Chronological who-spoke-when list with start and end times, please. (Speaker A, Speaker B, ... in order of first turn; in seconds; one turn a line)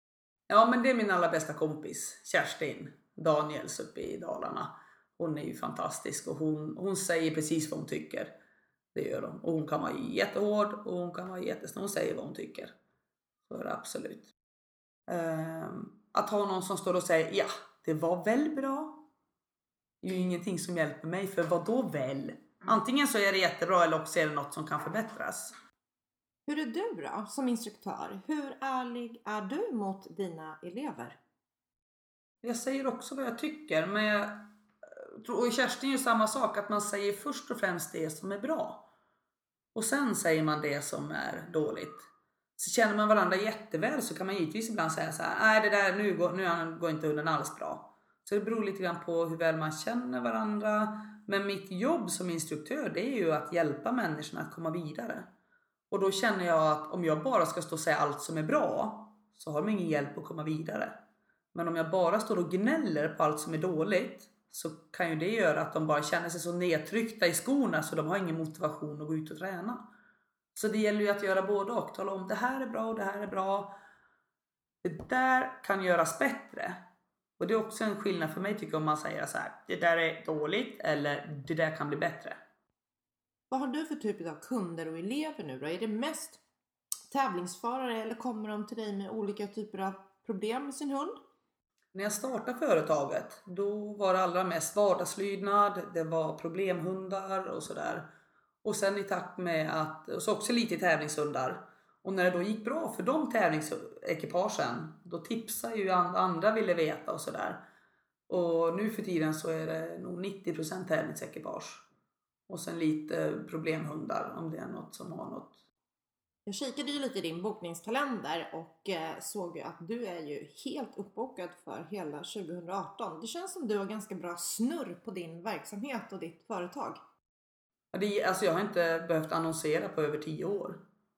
Speaker A: 0.5-8.3
Speaker A: 8.9-12.7
Speaker A: 13.5-14.3
Speaker A: 15.1-19.0
Speaker A: 20.0-25.6
Speaker B: 26.5-31.2
Speaker A: 32.4-38.8
Speaker A: 39.7-42.0
Speaker A: 42.6-55.3
Speaker A: 55.9-61.0
Speaker A: 61.5-69.8
Speaker A: 70.5-73.7
Speaker A: 74.8-76.8
Speaker A: 77.4-82.4
Speaker B: 83.5-86.4
Speaker B: 87.1-91.2
Speaker A: 91.9-98.0
Speaker A: 98.6-107.6
Speaker A: 108.3-111.8
Speaker A: 112.5-115.6
Speaker B: 116.5-127.0
Speaker A: 127.9-130.8